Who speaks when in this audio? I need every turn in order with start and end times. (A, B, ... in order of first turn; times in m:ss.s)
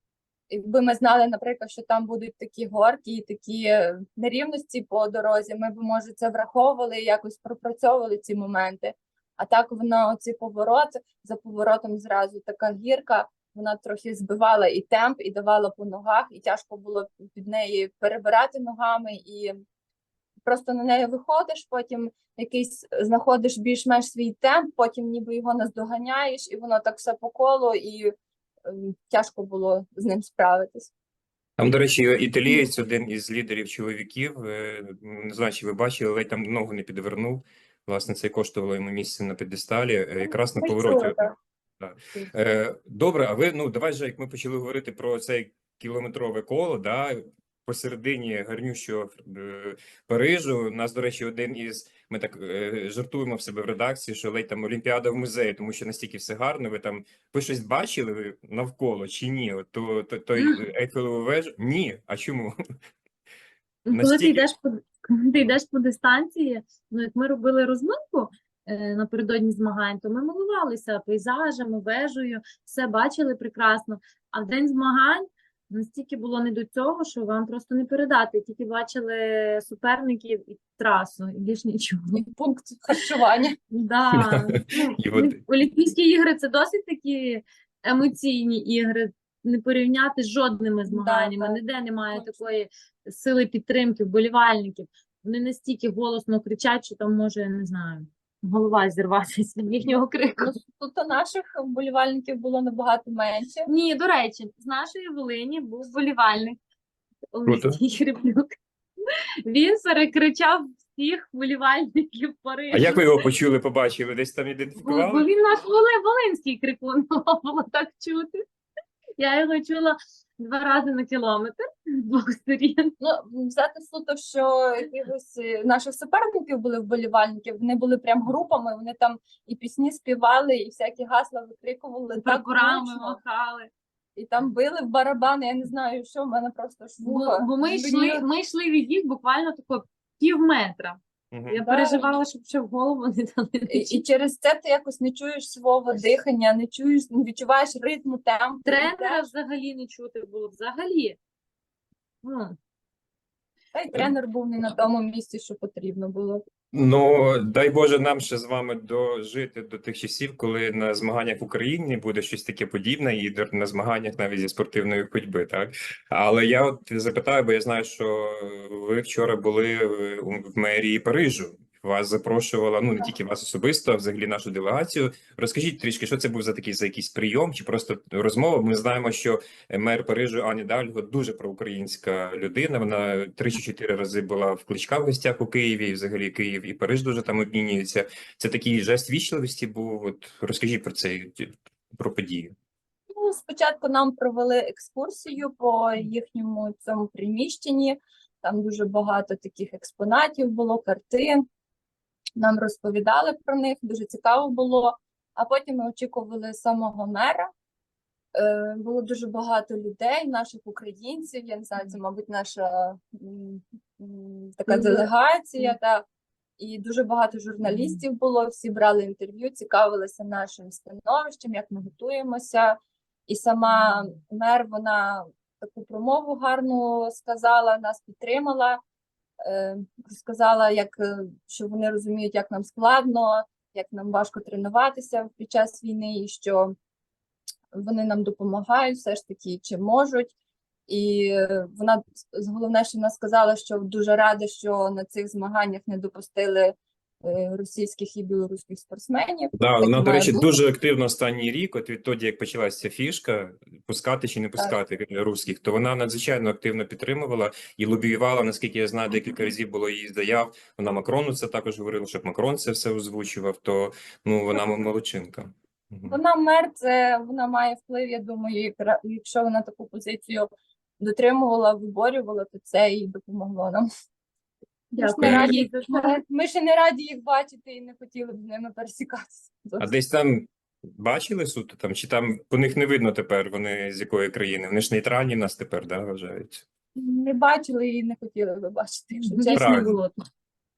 0:00.5-0:19.6 A
0:20.5-0:28.1 A
0:28.6-0:30.9 A
0:31.6-0:41.2 B
0:40.6-0:41.3 A
0:41.8-1:02.6 B
1:03.9-1:22.2 C
1:03.9-1:04.5 B
1:22.1-1:23.6 A
1:23.7-1:40.5 C
1:25.0-1:25.4 B
1:30.9-1:31.6 A
1:40.4-1:43.7 A
1:43.7-1:46.6 C
1:47.3-1:48.5 C
1:47.5-1:47.8 B
1:49.1-1:53.2 C
1:52.7-1:55.3 B
1:54.8-1:58.4 C
1:59.2-2:02.9 C
2:03.0-2:13.2 A
2:12.2-2:13.7 C
2:14.2-2:18.2 A
2:17.0-2:24.0 C
2:21.3-2:21.6 B
2:21.7-2:22.0 A
2:23.7-2:29.3 A
2:28.7-2:31.2 C
2:32.2-2:32.6 C
2:33.7-2:36.4 A
2:36.7-3:12.5 B
3:13.2-3:21.4 A
3:22.4-3:27.5 A
3:28.4-3:36.0 A
3:34.7-3:35.1 C
3:36.6-3:42.8 A
3:37.6-3:38.0 C
3:43.3-3:48.8 A
3:49.4-3:56.7 A
3:57.7-4:00.3 A
4:00.9-4:10.5 A
4:09.5-4:26.2 B
4:26.1-4:33.8 A
4:34.9-4:36.2 C
4:34.9-4:39.9 A
4:35.2-4:35.5 B
4:39.8-4:46.6 B
4:47.0-4:49.9 A
4:49.2-4:50.2 C
4:49.6-4:50.0 B